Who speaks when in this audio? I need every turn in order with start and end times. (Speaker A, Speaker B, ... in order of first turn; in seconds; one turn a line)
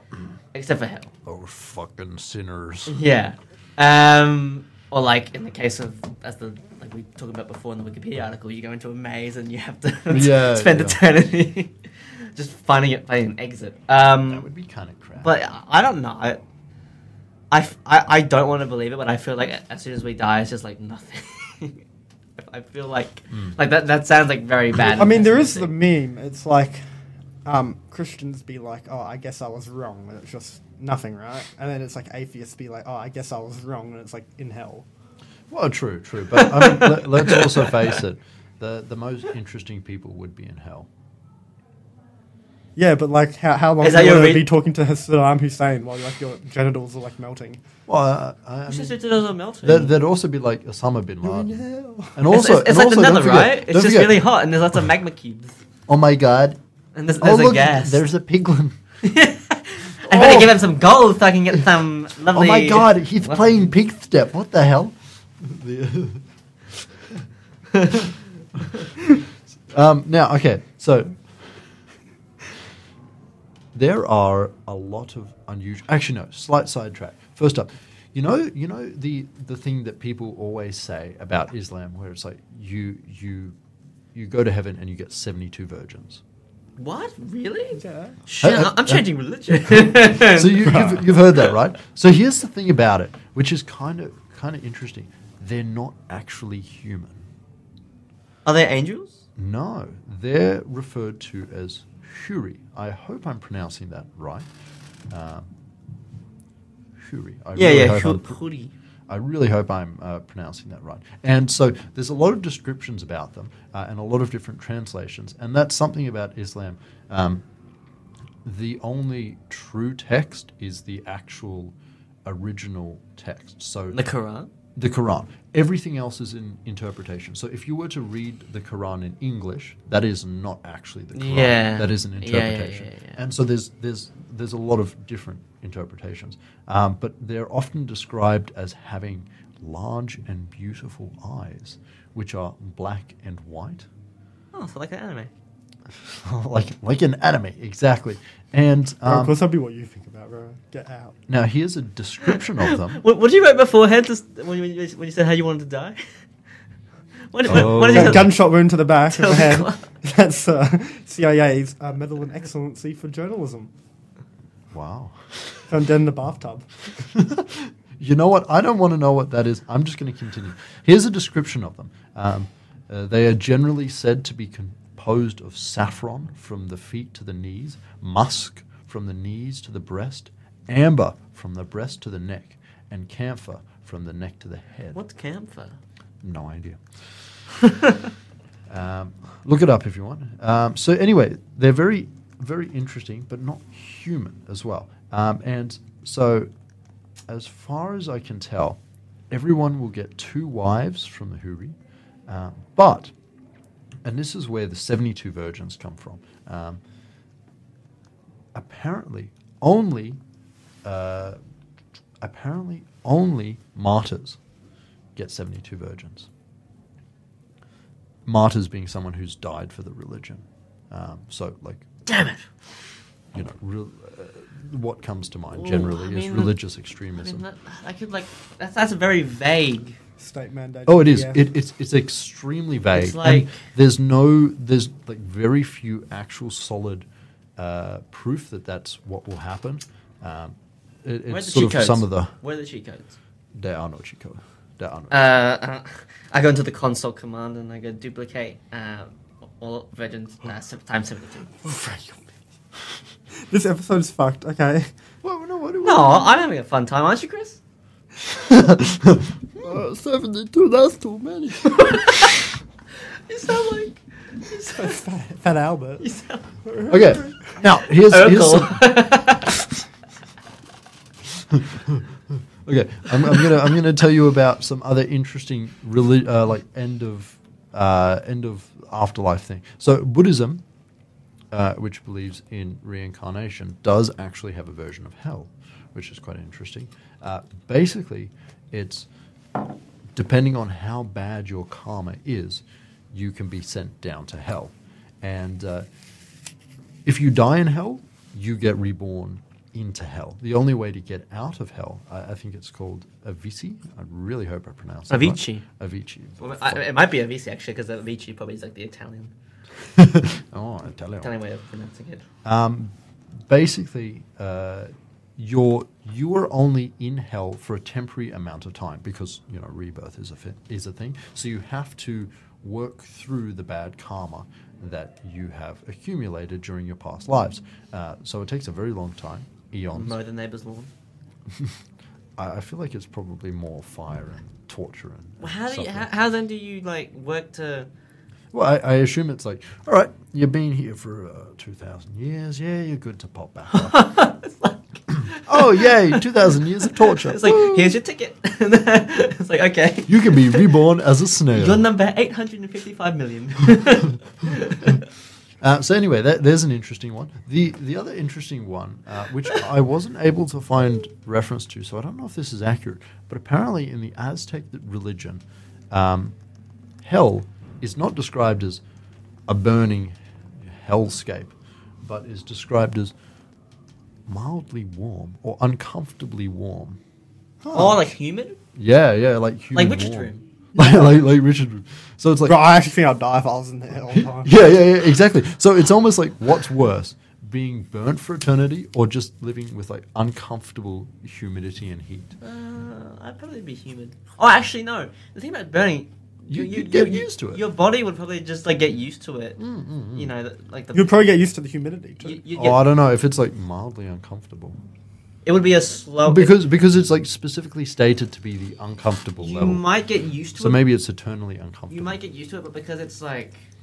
Speaker A: 0.5-1.1
Speaker B: 1.2-3.0
Speaker A: 2.9-11.8
Speaker B: 10.1-11.0
Speaker A: 12.3-14.5
Speaker B: 14.3-15.3
Speaker A: 15.2-16.4
Speaker A: 17.5-21.8
Speaker A: 22.4-25.7
Speaker C: 25.0-26.8
Speaker C: 27.4-34.9
Speaker B: 35.5-40.9
Speaker A: 36.6-37.4
Speaker C: 42.8-47.6
Speaker A: 43.8-44.5
Speaker B: 47.9-49.0
Speaker A: 48.7-49.9
Speaker B: 49.6-51.6
Speaker C: 51.2-52.2
Speaker B: 52.1-54.2
Speaker A: 52.3-55.6
Speaker B: 55.9-56.6
Speaker A: 57.0-58.0
Speaker B: 57.2-58.8
Speaker A: 59.0-63.7
Speaker B: 60.0-60.6
Speaker B: 62.3-67.2
Speaker B: 69.7-71.2
Speaker B: 73.7-83.5
Speaker B: 84.1-86.2
Speaker A: 86.8-91.1
Speaker C: 87.8-88.2
Speaker B: 88.4-89.0
Speaker B: 89.8-97.3
Speaker C: 90.7-91.0
Speaker A: 98.5-99.2
Speaker B: 99.4-104.5
Speaker B: 105.1-105.5
Speaker B: 107.0-108.4
Speaker A: 107.5-108.7
Speaker B: 109.1-117.4
Speaker B: 118.4-121.7
Speaker B: 122.2-124.0
Speaker A: 123.9-124.5
Speaker B: 124.8-143.9
Speaker A: 131.1-133.2
Speaker A: 144.5-145.3
Speaker B: 146.0-149.3
Speaker C: 149.1-151.2
Speaker B: 151.3-153.0
Speaker A: 152.3-156.0
Speaker A: 157.3-158.4
Speaker B: 157.5-158.3
Speaker C: 157.5-163.7
Speaker A: 159.1-159.8
Speaker B: 164.7-165.7
Speaker C: 165.7-166.7
Speaker B: 167.0-185.0
Speaker A: 184.9-185.8
Speaker B: 186.2-186.8
Speaker A: 187.6-188.1
Speaker B: 188.7-196.5
Speaker B: 197.3-201.8
Speaker B: 202.3-203.1
Speaker B: 204.0-206.8
Speaker B: 208.5-210.2
Speaker B: 210.8-211.4
Speaker B: 212.2-214.4
Speaker B: 215.2-216.3
Speaker B: 218.3-221.9
Speaker A: 222.1-222.5
Speaker B: 223.3-227.4
Speaker A: 225.5-226.6
Speaker A: 227.2-230.0
Speaker C: 230.2-231.5
Speaker B: 230.9-237.1
Speaker A: 232.9-233.6
Speaker B: 237.6-242.3
Speaker A: 241.3-243.2
Speaker B: 243.6-245.3
Speaker A: 245.1-251.7
Speaker C: 253.5-254.9
Speaker B: 255.2-256.4
Speaker A: 255.8-257.6
Speaker B: 258.2-262.2
Speaker A: 261.7-262.3
Speaker A: 263.3-264.9
Speaker C: 264.5-266.1
Speaker A: 266.0-266.4
Speaker C: 266.6-267.2
Speaker B: 266.9-268.9
Speaker A: 268.0-269.5
Speaker B: 271.3-280.6
Speaker B: 281.5-289.1
Speaker B: 290.1-295.9
Speaker B: 297.1-306.8
Speaker A: 305.1-305.6
Speaker A: 306.4-309.3
Speaker B: 309.9-311.3
Speaker A: 311.2-312.2
Speaker B: 312.4-312.9
Speaker B: 313.5-330.2
Speaker A: 329.9-330.9
Speaker B: 332.4-336.1
Speaker A: 335.4-337.9
Speaker B: 338.5-344.1
Speaker A: 343.7-346.2
Speaker B: 345.5-348.0
Speaker A: 346.9-350.6
Speaker B: 350.1-351.9
Speaker A: 351.5-355.0
Speaker B: 355.6-366.4
Speaker B: 367.0-368.8
Speaker B: 369.5-373.1
Speaker B: 374.3-377.0
Speaker C: 377.6-378.0
Speaker A: 377.7-378.6
Speaker B: 378.8-382.6
Speaker A: 379.7-380.4
Speaker C: 380.8-381.2
Speaker C: 382.5-384.5
Speaker B: 384.1-392.3
Speaker A: 392.4-399.6
Speaker B: 396.5-397.6
Speaker B: 399.6-400.3
Speaker A: 400.1-401.1
Speaker C: 400.9-402.4
Speaker A: 402.2-402.8
Speaker B: 402.6-404.8
Speaker A: 405.5-406.6
Speaker B: 406.3-409.8
Speaker A: 409.4-410.8
Speaker B: 410.6-412.2
Speaker A: 411.9-413.6